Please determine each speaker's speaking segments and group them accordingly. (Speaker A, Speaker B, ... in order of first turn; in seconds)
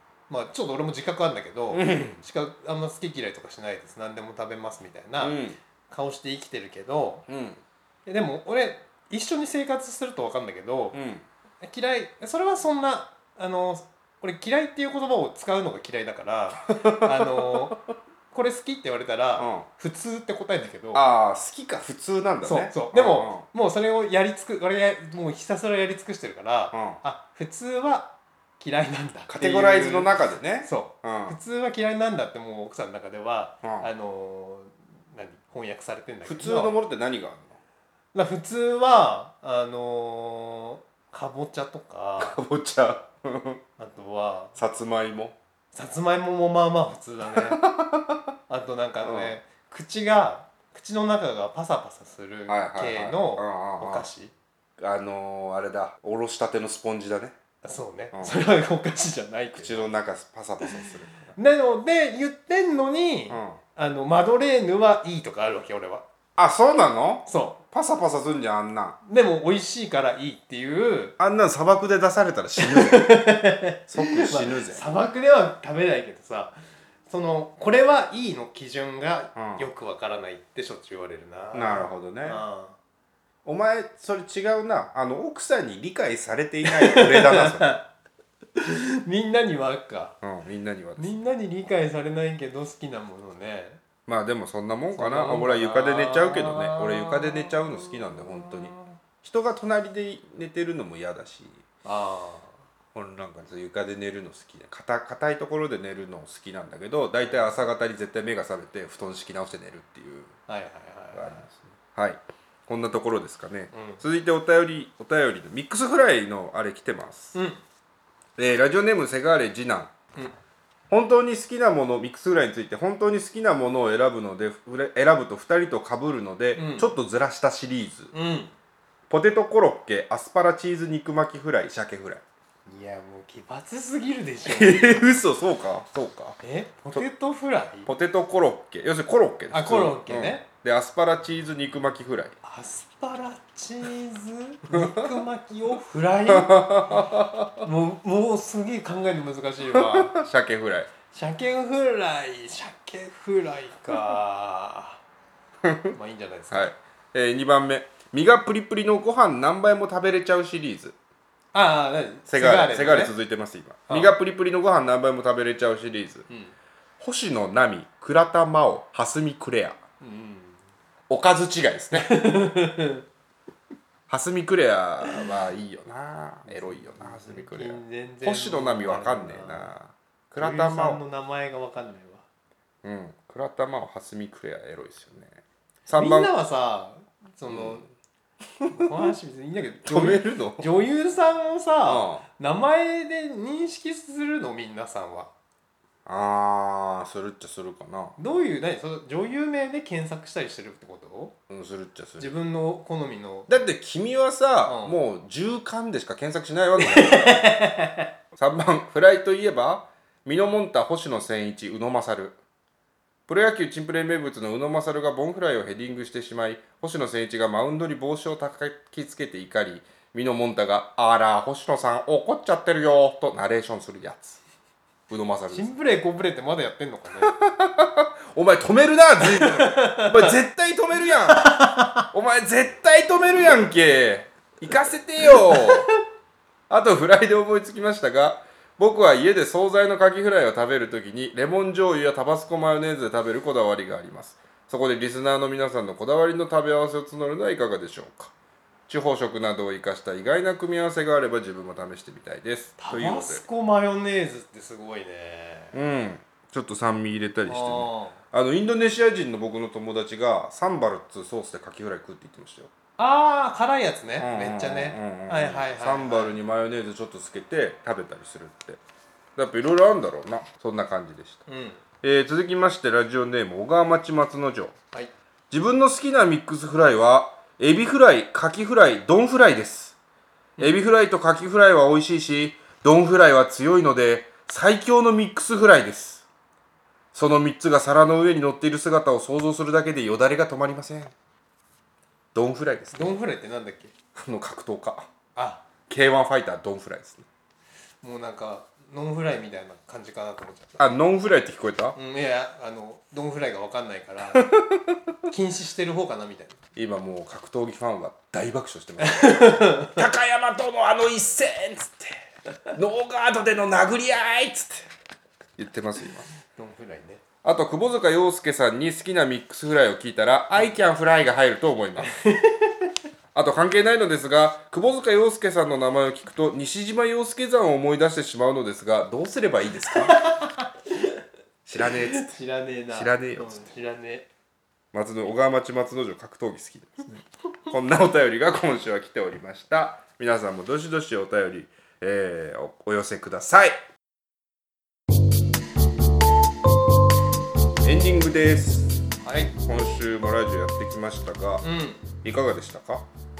Speaker A: 0.3-7.2, 8.1-11.0, 11.6-17.8, 18.3-21.0, 22.4-36.7, 38.1-42.4, 43.8-44.6, 45.7-47.6, 48.5-54.3, 57.6-59.9, 61.4-66.0, 67.2-67.6, 69.0-71.2, 72.6-76.5, 77.1-82.8, 86.6-87.9, 88.5-90.2, 91.0-93.8, 94.9-99.0, 101.8-102.6, 107.2-107.5, 110.5-111.4, 113.7-114.0, 117.3-117.6, 126.5-126.9, 128.1-128.5, 132.7-135.1, 136.4-137.9, 139.5-140.4, 142.4-150.1, 151.1-155.0, 155.9-156.7, 161.5-163.1, 163.9-164.1, 166.3-166.5, 170.0-170.6, 171.9-173.0, 177.0-179.7, 180.4-182.2, 185.9-187.9, 188.6-195.3, 198.2-201.3, 202.2-203.5, 204.6-205.0, 206.8-208.1, 225.5-227.3, 229.2-230.4, 231.2-232.1, 235.2-235.9, 252.8-255.7, 257.5-258.2, 263.0-266.3, 271.5-271.8, 292.9-293.9, 295.4-295.6, 298.0-300.8, 301.9-304.5, 305.3-306.6, 309.0-310.1, 316.5-317.2, 322.0-322.9, 329.9-331.2, 331.8-334.3, 349.2-349.6, 351.6-352.1
Speaker B: 1.7-2.2, 5.2-5.6, 7.3-7.6, 10.9-11.2, 16.6-17.8, 19.4-19.7, 20.9-23.4, 26.7-27.0, 29.3-31.4, 33.6-33.9, 36.2-37.5, 42.2-43.6, 44.5-45.4, 47.3-48.2, 49.0-49.3, 52.5-54.1, 54.8-57.4, 58.1-58.4, 59.6-61.4, 63.3-63.6, 66.4-69.0, 71.2-74.9, 79.3-79.7, 81.5-82.4, 83.4-87.8, 90.2-91.1, 94.1-101.6, 102.9-110.3, 111.1-117.4, 118.4-119.9, 120.9-128.1, 129.1-132.2, 134.5-136.4, 137.8-142.4, 144.7-145.2, 146.3-147.7, 149.7-150.9, 155.6-155.9, 156.5-160.9, 162.3-166.2, 167.0-169.8, 171.1-172.2, 174.1-181.0, 182.8-186.3, 187.5-187.8, 188.7-189.0, 189.8-190.7, 191.8-192.2, 196.1-198.1, 201.5-202.3, 203.5-207.5, 208.3-212.4, 213.3-224.4, 225.1-225.7, 227.2-235.9, 236.7-248.3, 248.9-253.4, 255.7-262.7, 264.2-268.8, 269.4-271.4, 272.0-274.8, 275.5-279.9, 280.6-286.2, 287.1-291.1, 292.3-293.2, 294.1-295.1, 295.9-297.2, 300.8-302.0, 304.3-305.0, 306.8-312.2, 312.7-314.9, 315.6-316.3, 317.4-322.1, 323.3-330.2, 331.6-332.3, 332.9-333.7, 334.9-337.1, 337.7-343.8, 347.8-349.0, 349.6-351.7, 352.2-353.0